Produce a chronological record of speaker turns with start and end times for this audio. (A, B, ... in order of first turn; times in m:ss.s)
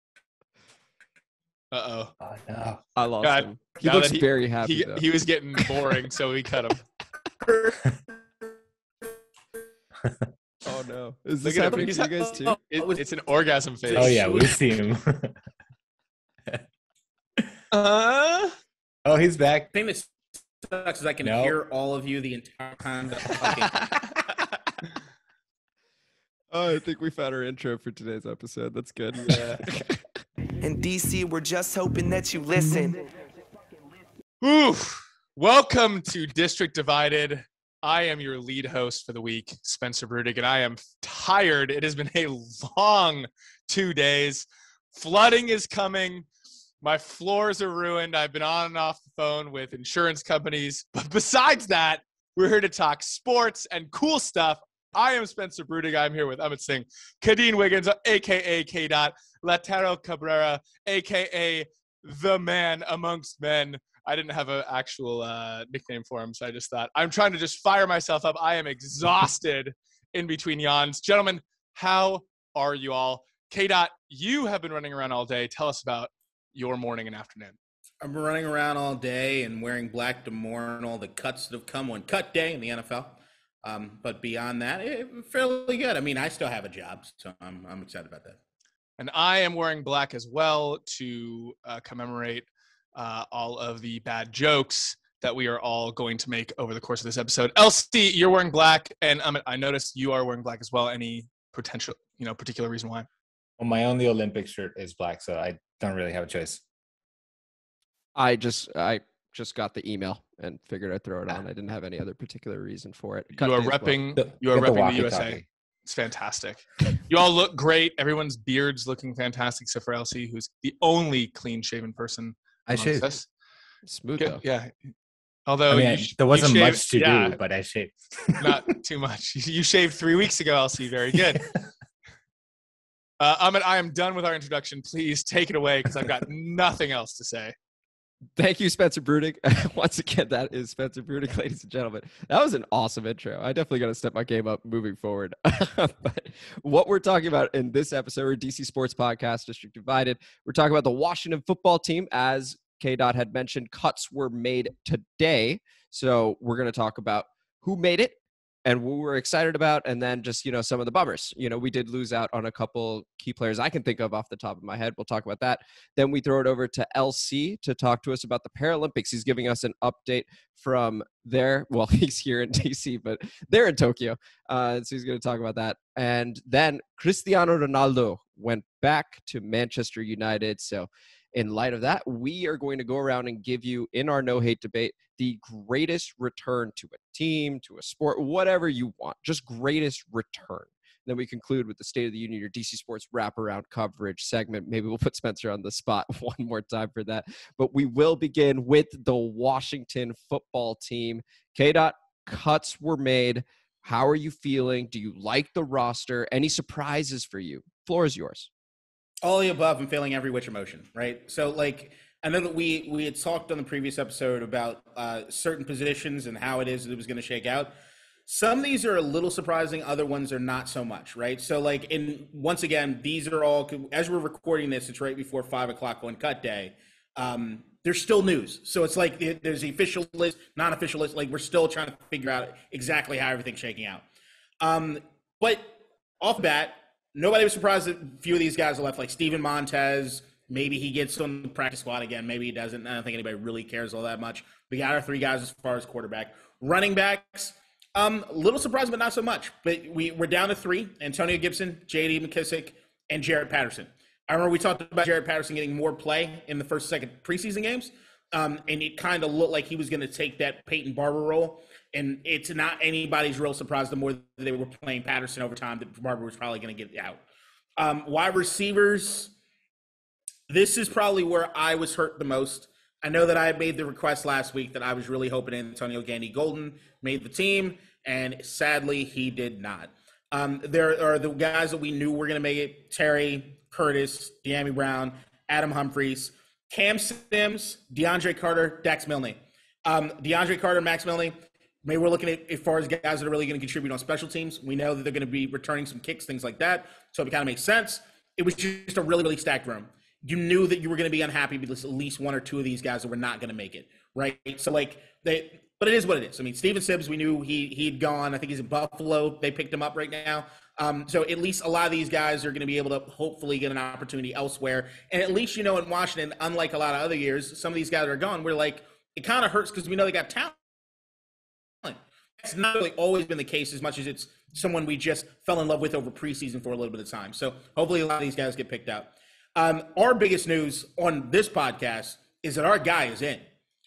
0:01.7-0:02.1 A
0:02.2-0:02.8 B
0:03.0-0:05.0 C
0:03.2-0:06.8 A
0:07.4-0:07.8 D
0:10.6-0:12.6 C
0:11.4-0:14.5 A
0:12.4-0:13.0 D
0:13.9-0:14.5 D
0:13.9-0:15.4 B
0:17.7-0:18.5 A
0:19.0-0:19.7 B
0:19.7-0:23.9 D
0:21.2-0:21.6 B
0:26.5-0:30.0 C
0:29.2-0:29.6 A
0:30.6-0:33.0 E
0:34.4-0:46.3 A
0:46.8-1:17.6 A
1:18.0-1:28.4 D
1:29.0-1:43.1 A
1:43.6-1:46.6 B
1:48.2-1:54.0 C
1:53.4-2:03.2 A
1:54.2-1:55.4 B
2:02.7-2:03.2 B
2:03.8-2:04.4 C
2:04.2-2:04.7 A
2:05.5-2:07.4 A
2:05.7-2:08.6 B
2:08.4-2:11.6 A
2:13.2-2:17.5 A
2:18.4-3:28.5 C
3:29.2-3:37.7 D
3:38.2-3:54.0 D
3:54.6-4:27.2 D
4:27.8-4:29.3 D
4:30.5-5:20.6 D
5:21.8-5:33.5 D